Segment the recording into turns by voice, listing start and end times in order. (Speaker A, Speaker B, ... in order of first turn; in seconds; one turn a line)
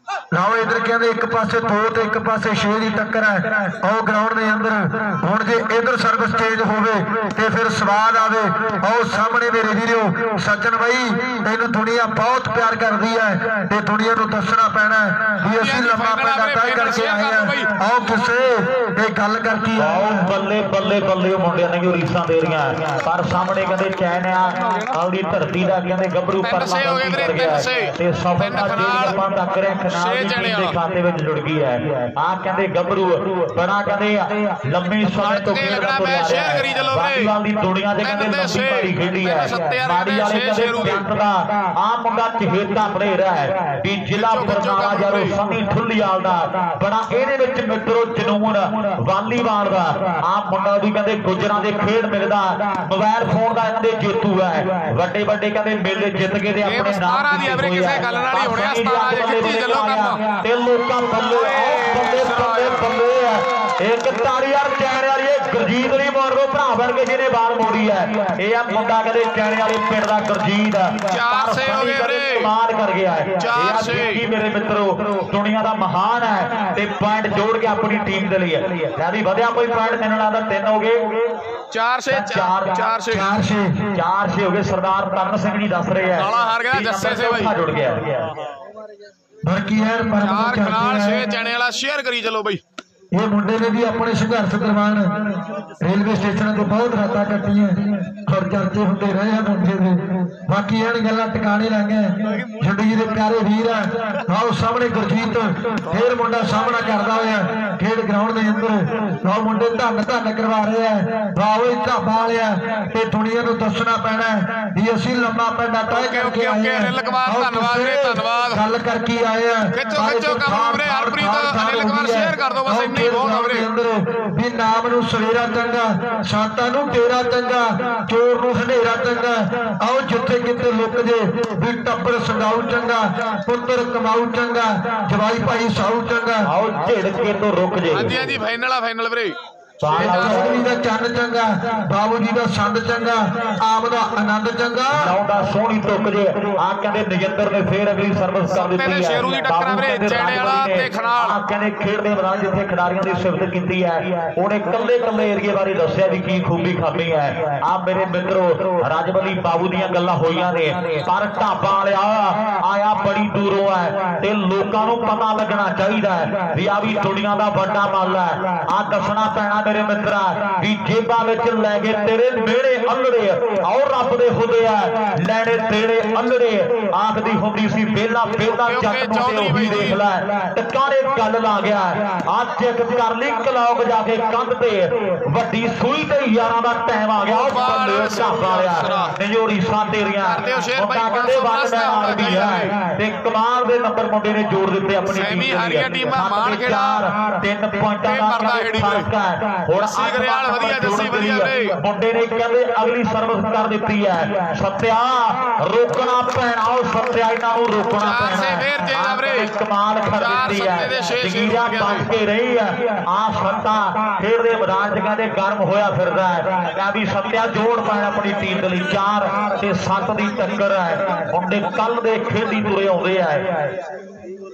Speaker A: 0.3-20.3
Speaker B: 15.4-17.7
Speaker C: 19.8-81.2
Speaker B: 24.6-25.0
Speaker B: 26.4-29.2
Speaker B: 29.9-30.7
Speaker B: 35.2-37.3
Speaker B: 38.0-41.0
Speaker B: 44.1-45.3
Speaker B: 56.6-60.2
Speaker B: 61.2-62.9
Speaker B: 71.1-72.5
Speaker B: 73.4-74.2
Speaker B: 81.7-83.3
Speaker C: 82.1-82.9
Speaker A: 83.1-83.9
Speaker C: 83.9-88.3
Speaker B: 86.2-87.5
Speaker A: 89.5-91.2
Speaker B: 90.2-92.6
Speaker A: 93.1-136.5
Speaker B: 115.9-118.6
Speaker B: 119.7-123.7
Speaker C: 136.5-138.3
Speaker B: 137.9-139.4
Speaker C: 139.8-140.7
Speaker A: 139.9-145.1
Speaker B: 140.0-140.5
Speaker C: 144.9-223.5
Speaker B: 148.6-151.4
Speaker B: 178.7-180.0
Speaker B: 187.3-189.1
Speaker B: 190.3-192.7
Speaker B: 195.1-197.0
Speaker B: 198.0-199.1
Speaker B: 199.8-201.7
Speaker B: 208.0-209.5
Speaker B: 210.2-212.1